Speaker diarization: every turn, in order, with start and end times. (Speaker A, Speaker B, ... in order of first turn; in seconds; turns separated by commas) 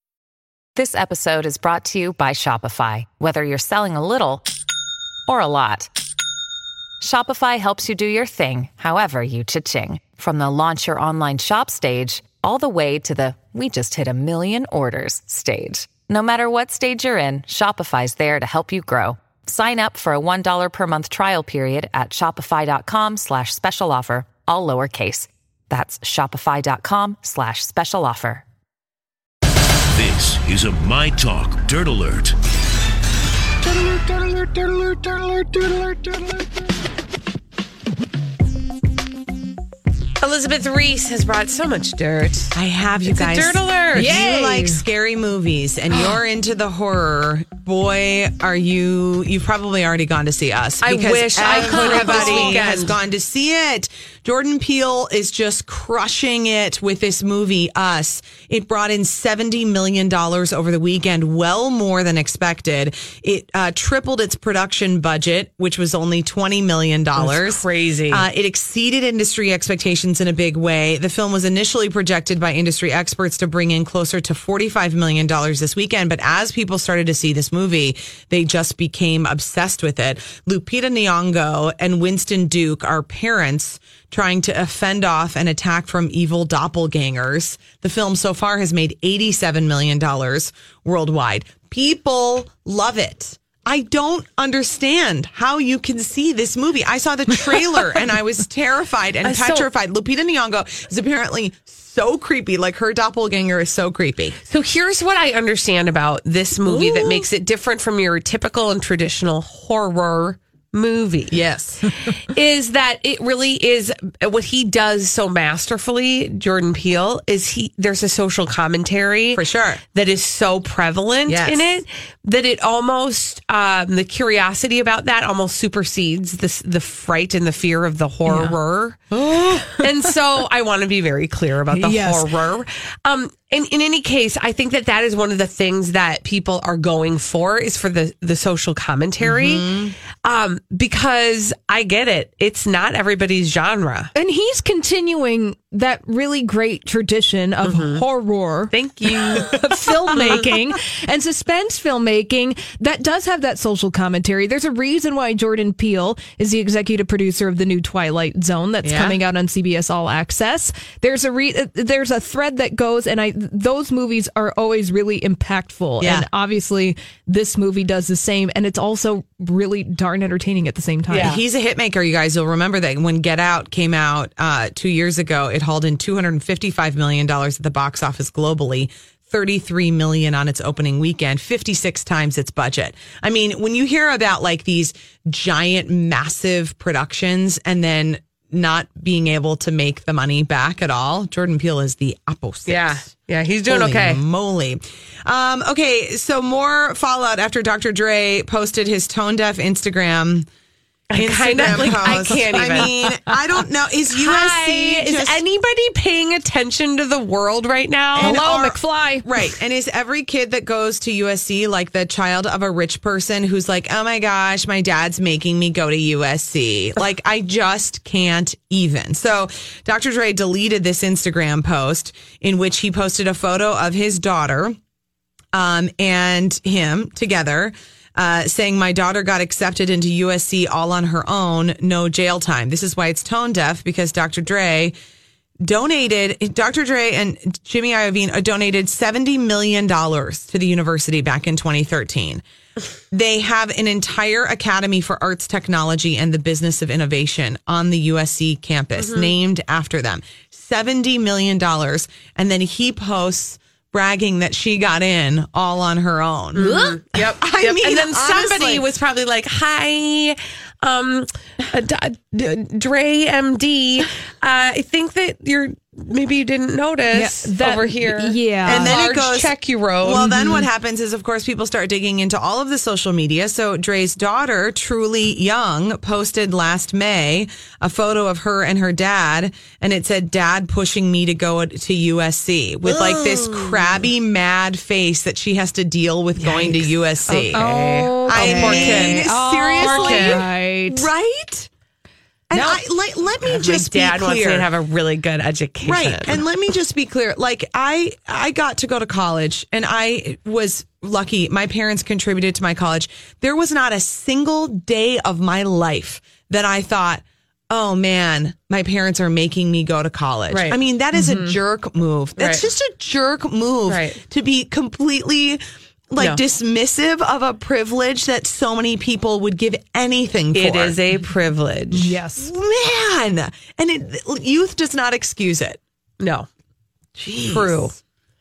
Speaker A: 0.8-4.5, Speaker A: 5.3-5.9, Speaker A: 7.0-28.4, Speaker B: 29.9-32.4, Speaker C: 34.8-36.2, Speaker D: 40.2-44.1, Speaker E: 42.5-104.4, Speaker C: 44.0-44.8, Speaker D: 50.8-52.9, Speaker C: 51.6-52.8, Speaker D: 67.2-68.2, Speaker D: 99.2-99.7, Speaker D: 104.4-111.4, Speaker E: 106.6-107.3, Speaker E: 111.3-111.9, Speaker D: 112.0-129.0, Speaker E: 119.3-119.8, Speaker E: 121.3-121.7, Speaker C: 128.3-128.6, Speaker E: 129.1-129.6, Speaker C: 129.5-129.9, Speaker D: 129.8-139.7, Speaker C: 131.7-132.3, Speaker E: 139.2-139.9, Speaker D: 140.2-144.1, Speaker C: 144.1-171.4, Speaker D: 147.6-148.0, Speaker D: 148.7-150.4, Speaker E: 158.8-159.2, Speaker E: 166.0-166.3, Speaker D: 171.1-171.4, Speaker E: 171.2-193.1, Speaker D: 192.7-194.2, Speaker E: 193.7-200.5, Speaker D: 201.1-203.1, Speaker E: 201.2-205.4, Speaker D: 204.1-208.5, Speaker C: 208.1-209.2, Speaker E: 208.2-224.8, Speaker E: 225.5-234.9, Speaker E: 235.6-242.4, Speaker E: 243.1-258.8, Speaker D: 248.9-249.3, Speaker D: 256.5-270.4, Speaker C: 267.1-269.0, Speaker E: 268.6-287.6, Speaker C: 270.4-270.6, Speaker D: 282.8-284.1, Speaker D: 286.4-290.4, Speaker C: 287.5-291.1, Speaker E: 288.3-291.7, Speaker E: 292.5-294.7, Speaker C: 292.5-292.8, Speaker D: 293.4-296.4, Speaker E: 295.8-321.0, Speaker D: 310.5-310.8, Speaker C: 311.1-311.6, Speaker D: 312.4-312.7, Speaker D: 313.9-314.2, Speaker D: 320.5-322.0, Speaker C: 321.9-322.5, Speaker E: 322.0-325.8, Speaker D: 326.2-326.5, Speaker E: 327.2-328.0, Speaker D: 327.3-327.9